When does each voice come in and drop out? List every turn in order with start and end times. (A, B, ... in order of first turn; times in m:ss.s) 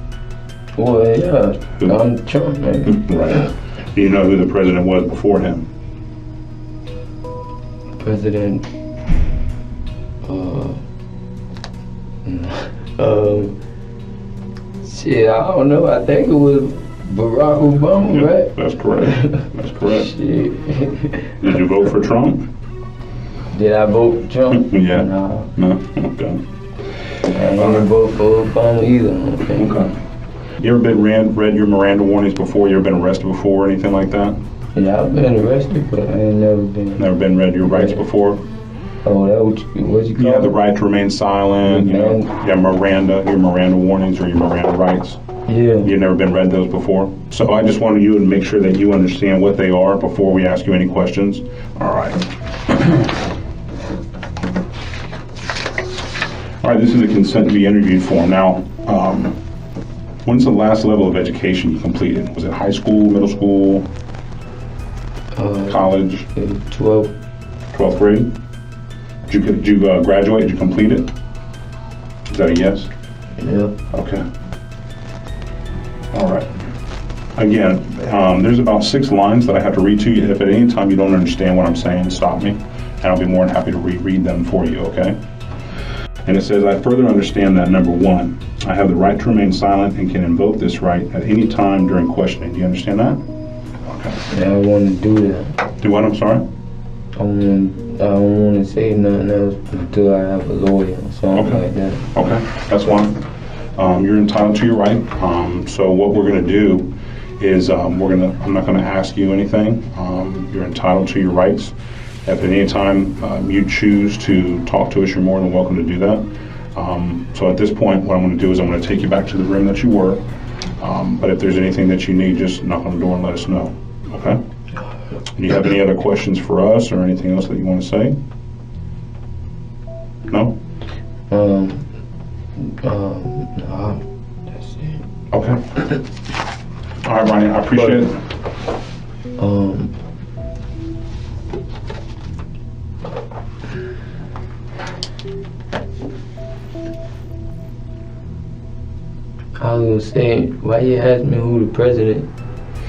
0:00.7-0:03.4 A
0:02.9-0:05.7 B
0:08.0-0:08.7 A
0:10.2-0:10.8 A
0:12.2-0:13.6 A
0:14.8-0:21.4 A
0:18.1-0:20.1 B
0:21.4-0:22.5 B
0:23.5-0:25.5 A
0:24.7-0:26.4 B
0:27.3-0:29.8 A
0:27.6-0:27.8 B
0:29.6-0:29.9 B
0:30.6-0:34.4 B
0:34.7-0:38.0 A
0:37.0-0:38.4 B
0:39.0-0:40.6 A
0:40.2-0:45.2 B
0:41.6-0:42.3 A
0:45.5-0:45.9 A
0:45.8-0:53.1 B
0:56.6-0:59.4 B
1:00.2-1:03.9 B
1:05.3-1:07.1 A
1:05.7-1:06.2 B
1:07.7-1:08.3 B
1:09.3-1:11.1 B
1:12.3-1:12.9 B
1:13.4-1:13.7 A
1:13.9-1:14.2 B
1:16.1-1:16.5 B
1:17.4-1:25.2 B
1:26.2-1:33.2 B
1:33.8-1:34.2 B
1:34.3-1:35.6 A
1:35.8-1:36.4 B
1:37.1-1:42.1 A
1:41.4-1:43.1 B
1:43.8-1:51.7 B
1:52.2-2:00.2 B
2:00.8-2:04.4 B
2:05.4-2:08.2 B
2:10.3-2:10.5 B
2:11.3-2:11.9 A
2:12.6-2:15.0 A
2:15.3-2:15.6 B
2:17.0-2:18.1 B
2:17.7-2:18.0 A
2:19.4-2:19.9 A
2:29.6-2:32.3 A